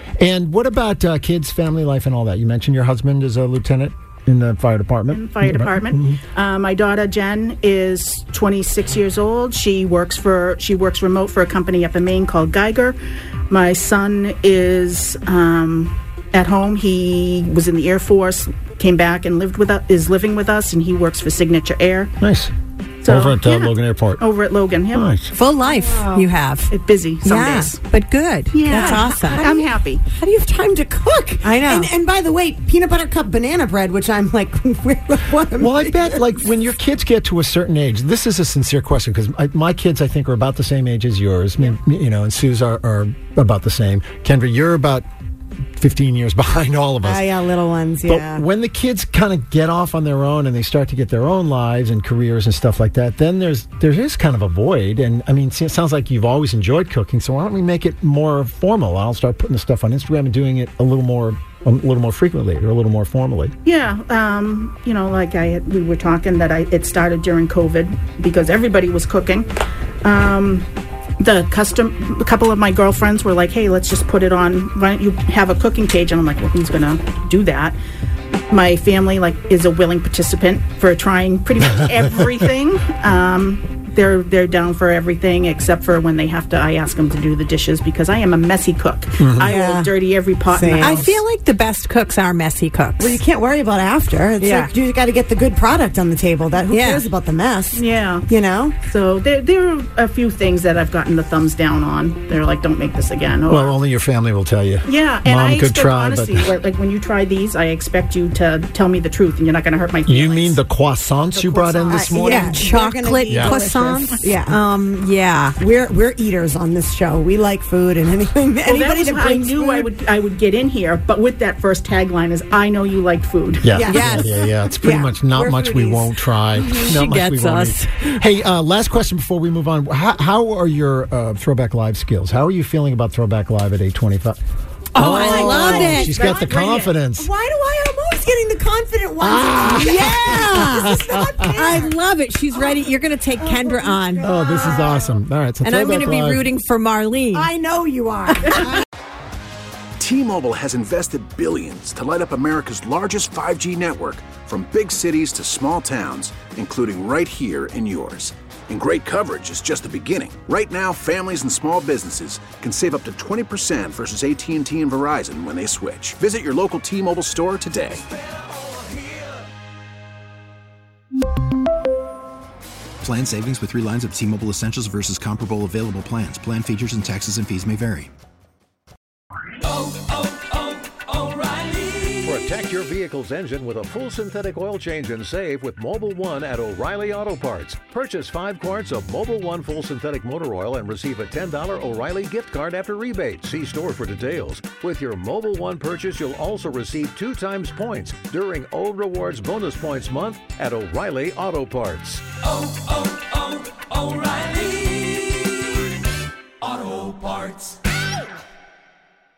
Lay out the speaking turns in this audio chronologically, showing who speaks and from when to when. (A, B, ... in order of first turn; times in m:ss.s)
0:00.2-0:06.2 A
0:05.1-0:13.0 B
0:13.5-0:22.1 B
0:22.2-0:22.5 A
0:23.0-0:25.1 B
0:23.0-0:24.2 A
0:24.9-0:25.3 A
0:25.3-0:26.7 C
0:25.6-0:26.3 D
0:26.7-0:27.8 B
0:27.2-0:29.4 C
0:28.5-0:30.0 B
0:28.7-0:36.2 D
0:31.4-0:31.9 C
0:35.6-0:45.0 A
0:45.8-0:47.3 A
0:47.0-0:48.4 D
0:48.0-1:03.5 A
1:03.6-1:09.5 B
1:10.0-1:10.7 B
1:11.2-1:17.8 B
1:18.5-1:31.2 B
1:29.2-1:29.5 A
1:29.4-1:31.2 D
1:30.7-1:33.1 C
1:33.0-1:38.8 D
1:34.4-1:34.7 C
1:36.7-1:37.0 C
1:37.7-1:38.3 B
1:38.8-1:43.7 B
1:43.5-1:46.5 A
1:44.8-1:50.6 B
1:50.0-1:52.6 A
1:51.3-1:54.6 D
1:52.3-1:55.5 C
1:53.3-1:53.6 A
1:55.6-1:59.9 D
1:58.6-2:03.7 B
2:03.6-2:14.4 A
2:03.7-2:06.1 D
2:03.9-2:04.2 C
2:06.6-2:08.2 C
2:14.9-2:17.3 A
2:14.9-2:16.9 B
2:15.0-2:16.1 C
2:17.2-2:22.0 D
2:19.2-2:21.3 A
2:20.0-2:20.8 C
2:21.5-2:24.3 C
2:22.5-2:25.2 D
2:24.2-2:26.4 A
2:25.6-2:27.5 C
2:27.3-2:28.8 D
2:30.0-2:48.0 E
2:53.0-2:58.1 F
3:01.6-3:22.2 G
3:27.0-3:27.5 G